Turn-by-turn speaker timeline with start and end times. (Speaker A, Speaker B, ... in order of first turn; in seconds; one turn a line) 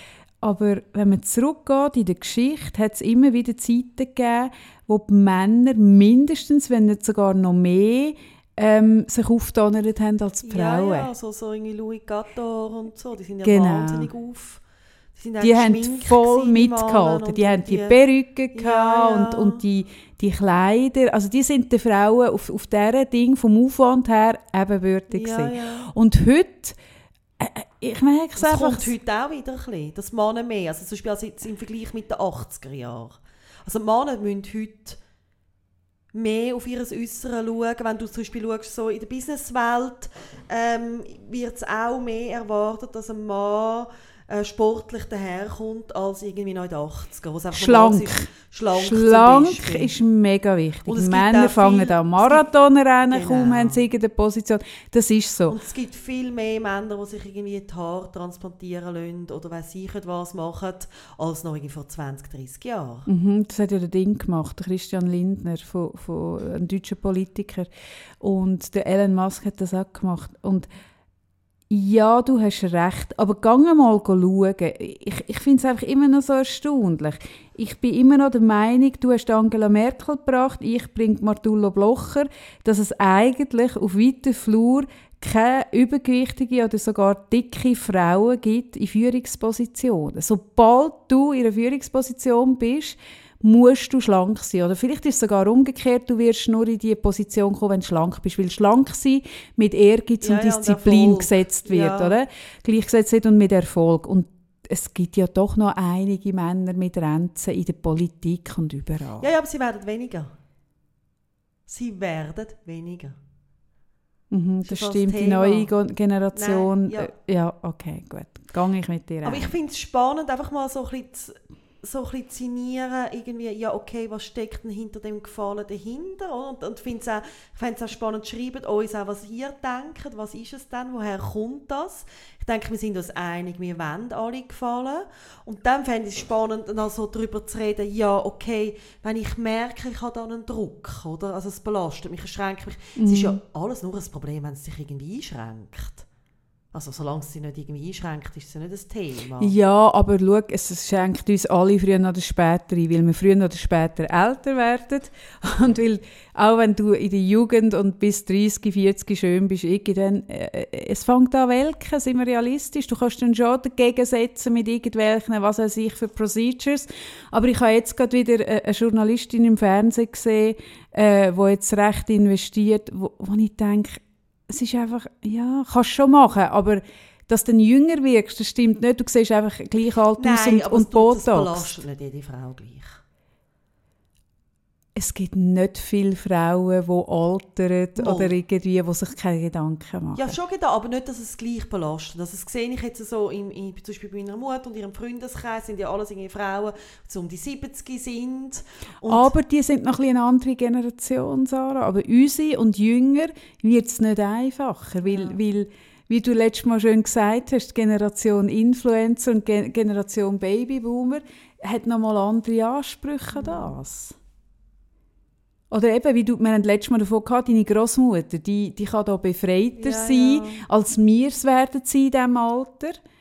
Speaker A: 0.4-11.1
Speaker B: 10.4-14.6
Speaker A: 13.4-14.1
Speaker B: 15.2-18.0
Speaker A: 15.4-26.8
Speaker B: 18.5-19.6
Speaker B: 25.1-25.9
Speaker A: 27.4-28.9
Speaker B: 28.4-35.0
Speaker B: 36.1-49.9
Speaker A: 47.5-55.6
Speaker B: 50.9-52.4
Speaker B: 53.1-53.8
Speaker B: 55.5-63.1
Speaker A: 63.1-67.7
Speaker A: 68.2-70.7
Speaker A: 71.7-109.3
Speaker B: 100.2-102.2
Speaker B: 109.2-110.3
Speaker B: 111.7-113.2
Speaker A: 114.3-119.5
Speaker B: 114.7-115.7
Speaker B: 116.3-117.1
Speaker B: 119.2-146.1
Speaker A: 142.9-143.4
Speaker B: 146.7-149.5
Speaker A: 149.4-181.8
Speaker B: 180.2-183.0
Speaker A: 184.9-190.3
Speaker B: 188.0-188.3
Speaker B: 190.1-199.3
Speaker A: 199.1-214.1
Speaker B: 205.0-205.4
Speaker B: 213.3-213.7
Speaker A: 215.7-223.0
Speaker B: 219.8-220.6